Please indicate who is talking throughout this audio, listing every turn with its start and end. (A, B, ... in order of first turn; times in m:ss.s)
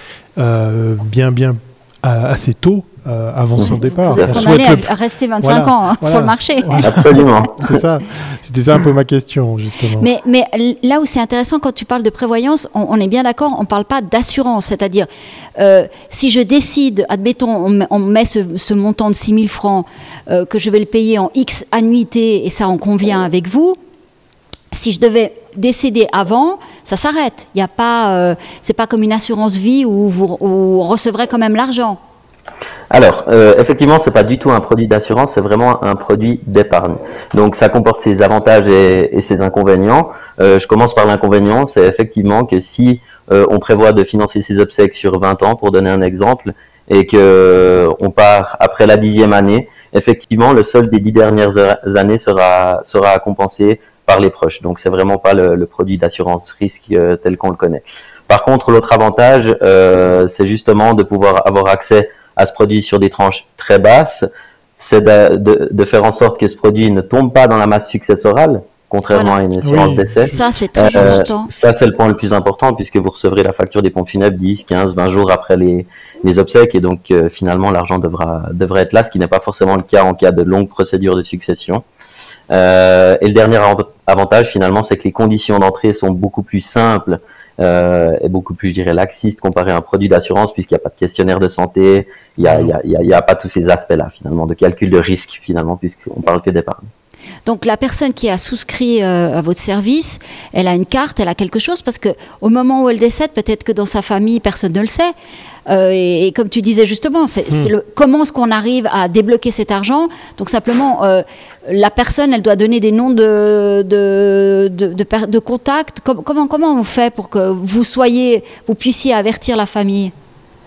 0:00.4-0:04.9 A
0:03.6-0:04.4 B
0:04.0-0:07.1 C
0:05.4-0:10.1 A
0:06.8-0:07.8 B
0:10.0-0:23.8 C
0:24.7-0:32.0 C
0:32.9-1:04.2 B
1:04.8-1:21.8 B
1:09.1-1:09.4 C
1:09.6-1:11.2 A
1:10.2-1:11.5 C
1:22.5-1:36.9 B
1:32.4-1:32.7 A
1:37.5-1:45.1 C
1:45.7-2:00.1 C